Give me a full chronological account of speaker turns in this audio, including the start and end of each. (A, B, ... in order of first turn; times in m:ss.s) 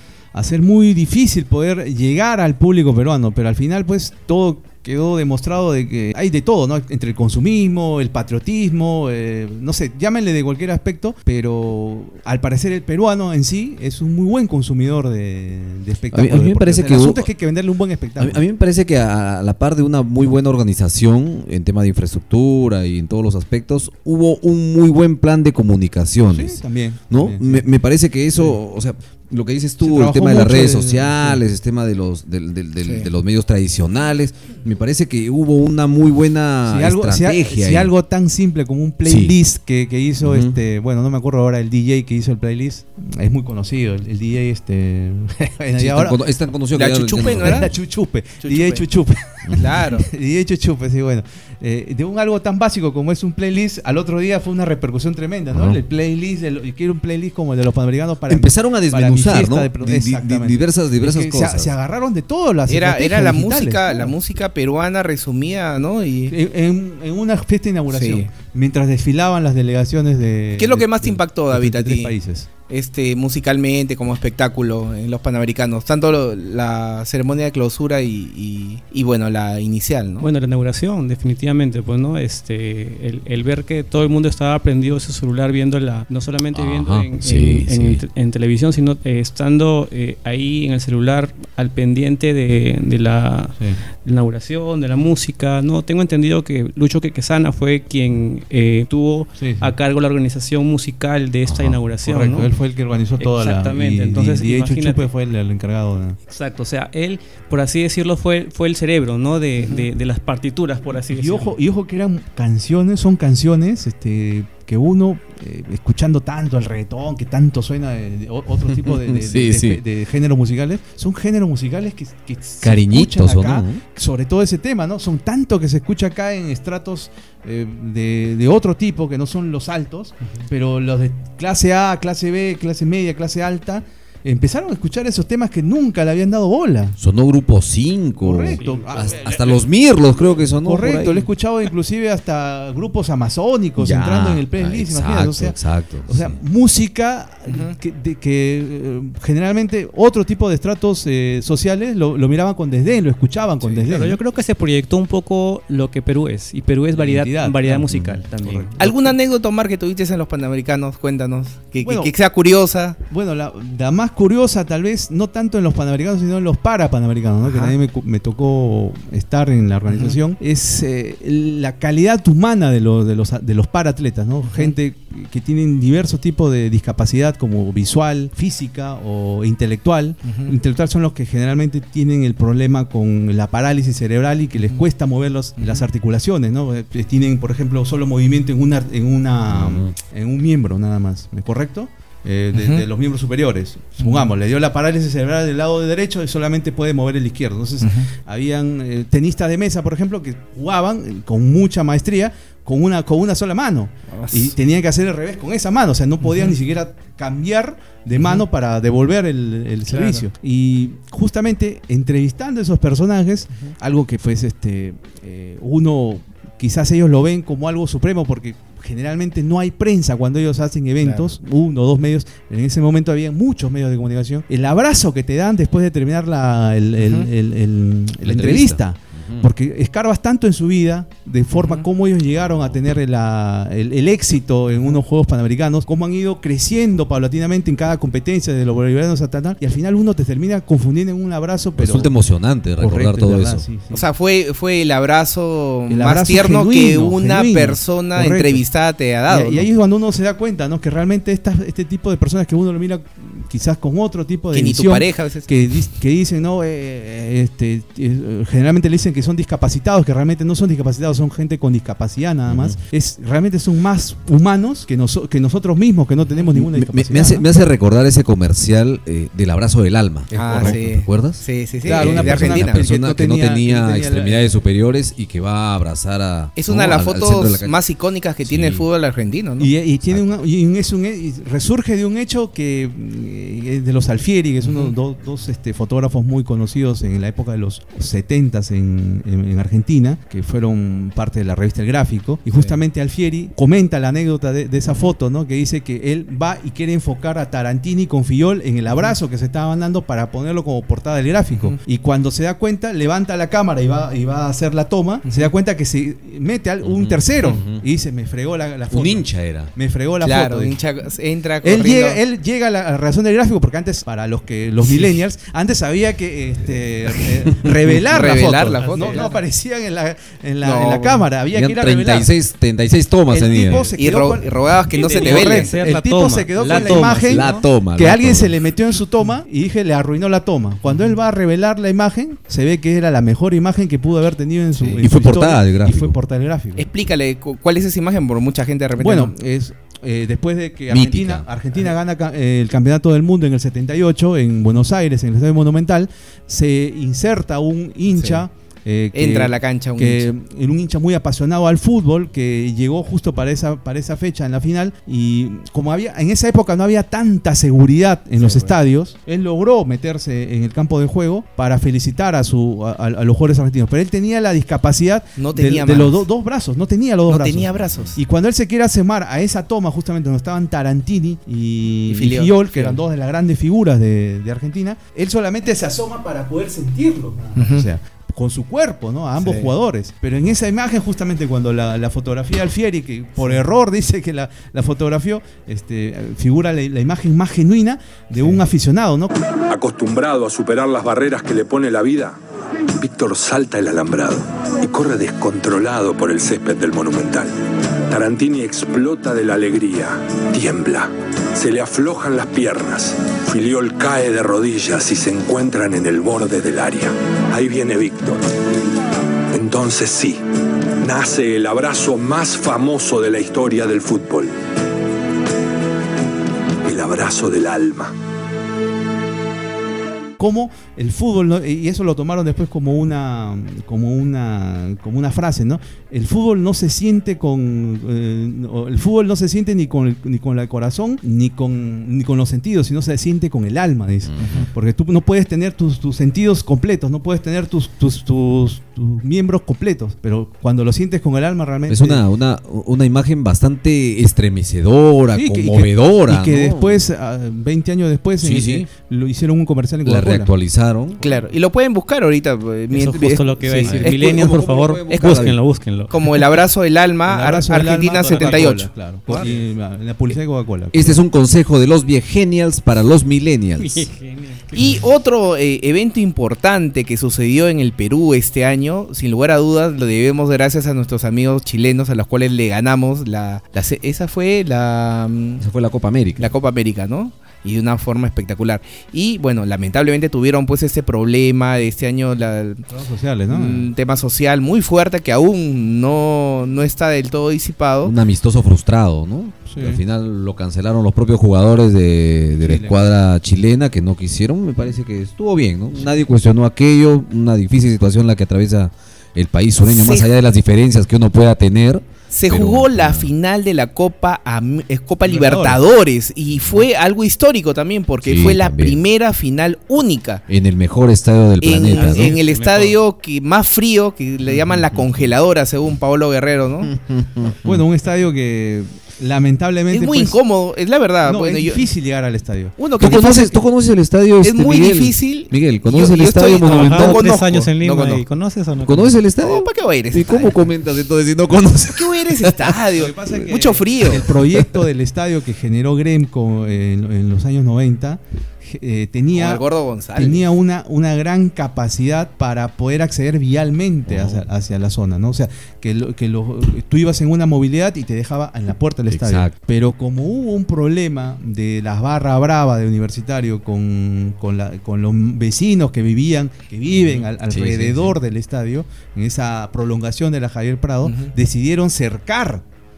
0:00.3-0:18.4 A
0:16.1-0:17.3 B
0:18.2-0:37.9 B
0:26.3-0:27.6 A
0:29.8-0:31.4 A
0:32.8-0:33.1 C
0:36.6-0:46.2 A
0:39.0-0:39.4 B
0:40.2-0:40.6 B
0:45.8-0:47.7 B
0:46.7-0:47.7 C
0:47.4-1:04.1 A
0:48.4-0:48.8 C
0:49.4-0:49.7 B
0:49.6-0:50.1 C
0:55.5-0:55.8 B
0:58.3-1:01.7 B
1:02.7-1:06.3 C
1:06.3-1:12.5 A
1:07.9-1:08.3 C
1:10.6-1:12.1 C
1:12.7-1:20.3 C
1:20.2-1:42.5 D
1:26.5-1:28.0 B
1:39.4-1:39.7 A
1:41.5-1:41.8 B
1:42.0-1:46.2 A
1:43.2-1:45.1 D
1:46.3-1:51.5 D
1:51.1-2:17.0 A
1:58.7-1:59.8 B
2:02.6-2:03.8 B
2:17.0-2:21.3 B
2:18.2-2:19.6 A
2:18.6-2:18.8 D
2:20.6-2:34.2 A
2:23.8-2:26.4 B
2:27.5-2:27.8 C
2:33.9-2:38.7 D
2:36.9-2:39.1 A
2:38.8-2:43.0 C
2:41.8-2:42.1 A
2:43.1-4:02.1 A
2:47.4-2:47.8 C
2:49.9-2:50.2 C
2:54.4-2:54.8 C
3:00.2-3:00.5 C
3:05.6-3:05.8 C
3:09.5-3:09.9 B
3:12.6-3:12.8 C
3:14.0-3:14.3 C
3:17.8-3:18.1 C
3:24.1-3:24.5 C
3:26.2-3:26.5 C
3:28.2-3:28.4 C
3:29.9-3:30.2 C
3:41.0-3:41.3 C
3:47.0-3:47.3 C
3:48.2-3:49.5 B
3:51.5-3:51.8 C
3:52.3-3:52.9 B
4:01.8-4:03.6 B
4:02.8-4:04.0 A
4:03.9-4:09.6 C
4:05.9-4:08.6 A
4:09.3-4:27.4 A
4:14.5-4:15.5 C
4:22.5-4:22.8 B
4:26.5-4:37.8 B
4:30.3-4:30.8 A
4:30.3-4:32.8 C
4:31.8-4:34.6 A
4:36.6-4:39.7 C
4:38.4-4:38.8 B
4:39.6-5:10.8 A
4:44.6-4:44.9 C
5:05.3-5:05.5 C
5:06.8-5:07.8 B
5:08.9-5:09.7 B
5:10.2-5:12.2 C
5:11.6-5:22.3 A
5:14.8-5:15.2 C
5:18.0-5:19.3 C
5:18.8-5:19.4 D
5:20.6-5:21.2 C
5:21.5-5:23.9 B
5:23.3-5:36.9 A
5:23.5-5:25.7 C
5:24.9-5:27.6 D
5:26.6-5:28.6 B
5:35.0-5:36.2 B
5:36.8-5:39.3 C
5:39.0-6:29.4 A
5:40.9-5:41.5 B
5:48.1-5:48.4 C
5:49.1-5:50.3 C
5:58.4-5:58.7 C
6:05.4-6:06.2 C
6:07.3-6:08.2 C
6:12.1-6:13.0 C
6:17.6-6:17.9 C
6:19.4-6:19.7 C
6:29.7-6:32.4 E
6:33.0-6:37.5 E
6:38.1-6:48.4 E
6:49.5-6:50.4 E
6:51.0-6:54.5 E
6:56.8-6:58.1 E
7:00.4-7:22.2 A
7:14.3-7:14.7 B
7:14.4-7:14.6 C
7:21.9-7:27.0 B
7:25.3-7:30.5 A
7:28.4-7:28.9 B
7:30.0-7:31.2 B
7:31.2-7:34.5 C
7:32.9-7:36.1 D
7:33.8-7:35.6 B
7:35.1-7:35.5 C
7:36.1-7:39.5 C
7:37.3-7:41.1 A
7:38.2-7:38.6 D
7:40.9-7:44.1 B
7:43.8-7:44.9 D
7:44.8-7:55.6 C
7:55.6-7:56.5 B
7:56.4-8:02.8 C
8:02.9-8:03.9 A
8:03.5-8:08.1 C
8:08.0-8:23.3 B
8:09.7-8:10.0 A
8:12.6-8:13.0 A
8:19.9-8:20.3 C
8:22.3-8:30.4 C
8:25.3-8:25.8 A
8:28.2-8:29.0 B
8:30.5-8:32.4 B
8:31.6-8:36.9 C
8:31.9-8:33.0 D
8:34.5-8:35.1 B
8:36.8-8:37.8 B
8:37.6-8:40.4 A
8:39.9-8:41.9 C
8:41.2-8:42.8 A
8:42.8-8:43.6 C
8:43.0-8:48.2 B
8:44.4-8:47.7 C
8:46.6-8:49.2 D
8:48.8-8:52.8 B
8:49.4-8:50.6 C
8:51.9-8:54.3 C
8:53.0-8:59.6 A
8:59.3-9:00.4 C
9:00.1-9:22.6 A
9:04.1-9:04.4 B
9:09.1-9:09.5 B
9:16.9-9:18.2 B
9:21.0-9:21.3 C